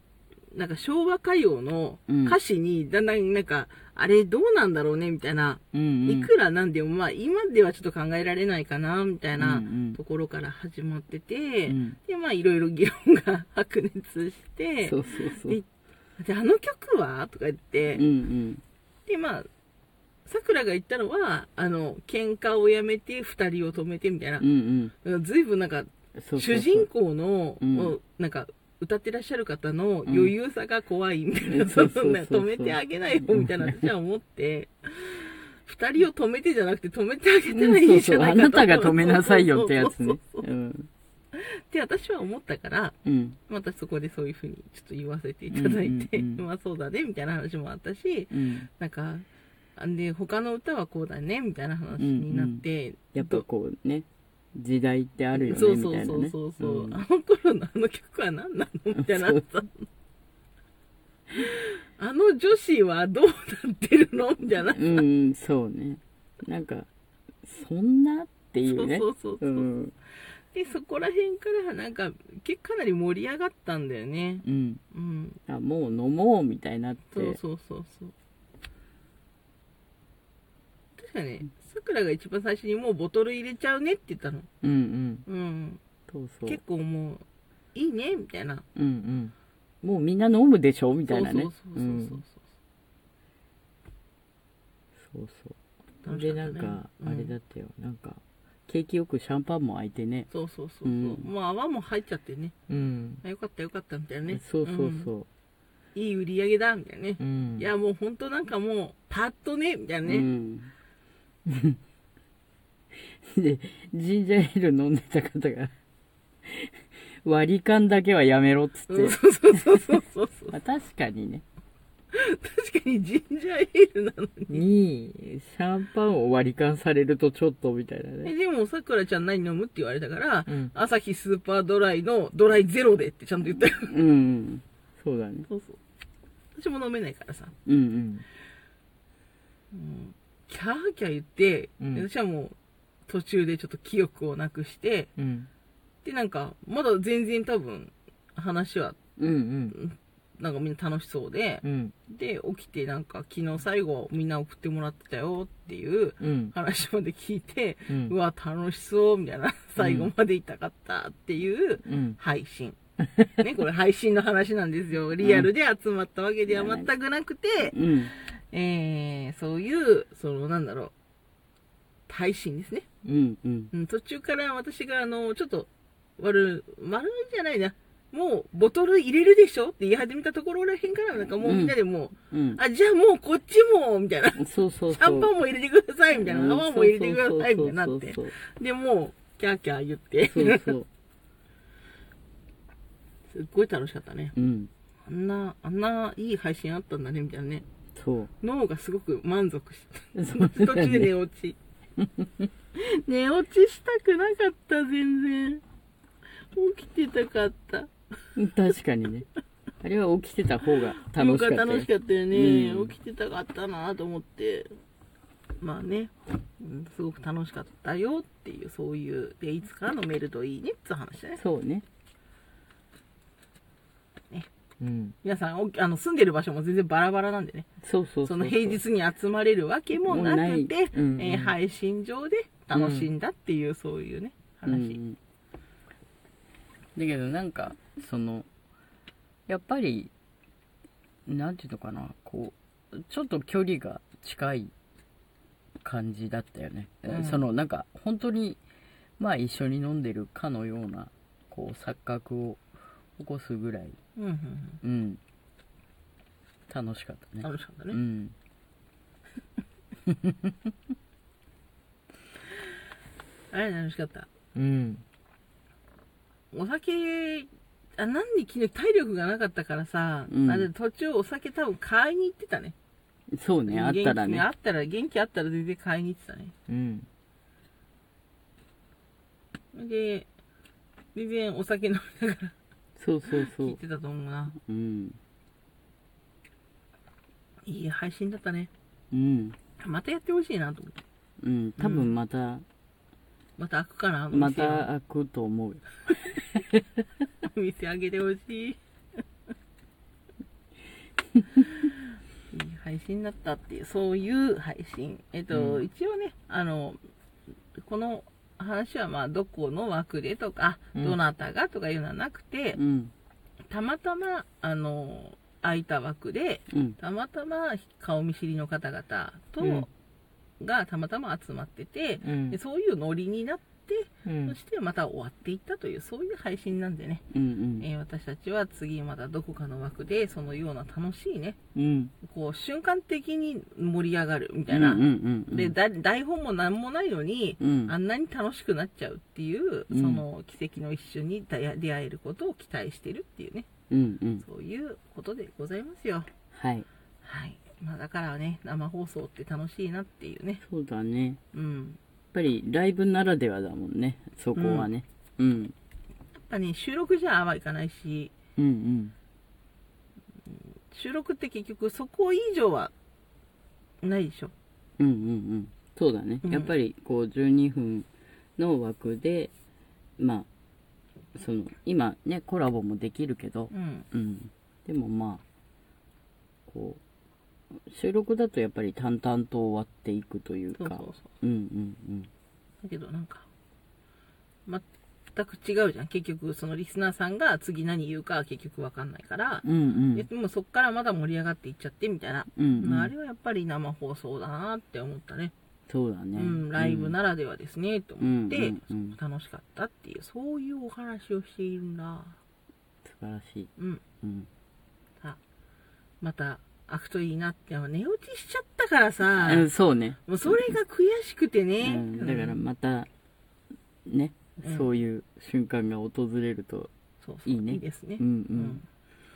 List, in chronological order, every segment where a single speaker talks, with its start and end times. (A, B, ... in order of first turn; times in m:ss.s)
0:00.5-0:15.6 A
0:02.1-0:02.4 B
0:05.7-0:06.3 B
0:09.4-0:10.0 B
0:11.7-0:12.0 B
0:14.8-0:15.6 B
0:16.2-0:18.0 A
0:17.9-0:18.6 B
0:19.1-0:19.5 A
0:20.2-0:24.4 A
0:24.4-0:24.9 B
0:25.0-0:40.4 A
0:26.2-0:26.9 B
0:27.6-0:27.9 B
0:30.0-0:30.3 B
0:31.4-0:33.9 B
0:37.5-0:40.9 B
0:41.3-0:43.0 A
0:43.0-0:43.4 B
0:43.5-0:49.2 A
0:45.5-0:46.4 B
0:48.3-0:48.7 B
0:49.8-0:53.4 A
0:52.0-0:57.0 B
0:55.4-0:59.9 A
0:59.0-0:59.4 B
1:01.3-1:05.0 A
1:04.7-1:06.9 B
1:07.4-1:09.9 B
1:08.6-1:09.7 A
1:10.5-1:15.4 A
1:14.4-1:14.8 B
1:15.5-1:17.4 B
1:17.1-1:18.1 A
1:21.0-1:24.5 A
1:24.6-1:25.2 B
1:25.2-1:25.8 A
1:26.1-1:26.6 B
1:26.4-1:27.2 A
1:27.7-1:28.6 A
1:28.7-1:32.2 B
1:31.0-1:32.4 A
1:35.0-1:35.6 B
1:36.0-1:37.3 A
1:36.1-1:40.3 B
1:40.3-1:42.6 A
1:40.8-1:41.3 B
1:42.7-1:43.2 B
1:43.2-1:45.1 A
1:44.3-1:45.3 B
1:45.9-1:50.3 A
1:47.2-1:47.7 B
1:50.0-1:50.7 B
1:51.4-1:51.8 B
1:53.0-1:55.7 B
1:56.4-2:00.0 B
1:58.9-2:00.6 A
2:00.5-2:01.4 B
2:02.1-2:04.6 A
2:04.5-2:08.3 B
2:08.2-2:14.0 A
2:10.5-2:10.7 B
2:13.9-2:15.5 B
2:15.5-2:15.8 A
2:16.6-2:17.5 A
2:17.6-2:18.3 B
2:19.7-2:22.6 A
2:21.8-2:22.0 B
2:23.1-2:25.1 A
2:25.2-2:25.5 B
2:26.0-2:29.0 A
2:29.2-2:29.8 B
2:29.7-2:42.8 A
2:31.6-2:31.9 B
2:36.2-2:36.5 B
2:37.9-2:38.1 B
2:39.8-2:40.1 B
2:41.8-2:42.2 B
2:43.3-2:50.9 A
2:45.2-2:45.5 B
2:46.5-2:46.9 B
2:47.7-2:48.1 B
2:52.1-2:52.8 A
2:53.0-2:53.7 B
2:53.7-3:10.8 A
3:01.4-3:01.8 B
3:02.3-3:02.6 B
3:04.4-3:05.3 B
3:06.1-3:08.3 B
3:10.3-3:10.9 B
3:13.3-3:14.3 A
3:14.4-3:14.7 B
3:15.0-3:17.6 A
3:17.9-3:18.3 B
3:18.4-3:21.6 A
3:20.1-3:21.1 B
3:22.0-3:22.5 B
3:22.7-3:25.6 A
3:26.5-3:27.9 A
3:28.4-3:29.2 B
3:29.8-3:32.9 B
3:31.1-3:34.7 A
3:35.6-3:41.4 A
3:41.4-3:41.8 B
3:44.8-3:45.1 B
3:45.2-3:47.7 A
3:47.8-3:48.8 B
3:48.2-3:55.0 A
3:50.0-3:51.6 B
3:52.7-3:53.1 B
3:54.6-3:55.2 B
3:56.9-3:58.5 B
3:59.5-4:00.1 B
4:01.2-4:04.7 B
4:05.8-4:08.6 B
4:07.1-4:07.4 A
4:09.2-4:12.6 B
4:13.2-4:14.0 B
4:14.2-4:14.8 A
4:14.8-4:15.2 B
4:16.7-4:18.3 B
4:17.4-4:18.0 A
4:20.0-4:20.5 B
4:23.5-4:24.3 A
4:24.5-4:25.0 B
4:26.5-4:32.7 A
4:30.3-4:30.7 B
4:33.3-4:34.4 B
4:33.7-4:36.5 A
4:36.7-4:37.1 B
4:39.7-4:40.3 A
4:41.1-4:42.5 A
4:43.0-4:43.8 B
4:43.3-4:44.5 A
4:44.5-4:45.2 B
4:47.7-4:48.7 A
4:49.1-4:49.6 B
4:49.8-4:51.0 A
4:51.4-4:52.6 B
4:51.8-4:52.1 A
4:53.6-4:54.9 A
4:54.3-4:56.8 B
4:57.4-4:58.8 A
5:01.3-5:01.6 B
5:01.6-5:02.0 A
5:02.5-5:07.0 A
5:05.5-5:05.8 B
5:07.8-5:12.8 A
5:12.8-5:13.1 B
5:13.7-5:19.9 A
5:16.7-5:17.0 B
5:19.6-5:19.9 B
5:20.6-5:27.2 A
5:22.2-5:22.6 B
5:24.2-5:24.6 B
5:27.3-5:27.8 B
5:27.8-5:31.6 A
5:31.7-5:32.1 B
5:32.2-5:43.7 A
5:34.7-5:35.7 B
5:37.6-5:37.9 B
5:39.9-5:40.2 B
5:43.9-5:44.4 B
5:44.4-5:46.3 A
5:46.5-5:46.8 B
5:47.2-5:50.6 A
5:50.6-5:51.4 B
5:51.5-5:52.0 A
5:52.3-5:55.7 B
5:54.5-5:54.9 A
5:56.5-5:58.3 A
5:58.6-5:59.1 B
6:00.9-6:02.9 A
6:04.0-6:04.5 A
6:05.0-6:09.5 B
6:06.4-6:06.7 A
6:10.2-6:10.5 B
6:11.3-6:15.4 B
6:13.7-6:14.0 A
6:16.7-6:17.0 B
6:17.7-6:22.3 B
6:20.7-6:21.2 A
6:22.8-6:23.5 A
6:24.6-6:35.5 A
6:29.6-6:30.3 B
6:32.5-6:33.1 B
6:35.9-6:37.1 B
6:36.4-6:42.4 A
6:38.2-6:39.2 B
6:43.0-6:43.7 B
6:43.8-6:44.0 A
6:44.2-6:44.5 B
6:46.2-6:49.7 A
6:49.3-6:50.7 B
6:50.2-6:52.6 A
6:51.8-6:53.1 B
6:54.0-6:56.9 B
6:54.6-6:54.9 A
6:57.2-6:58.8 A
6:57.4-6:58.8 B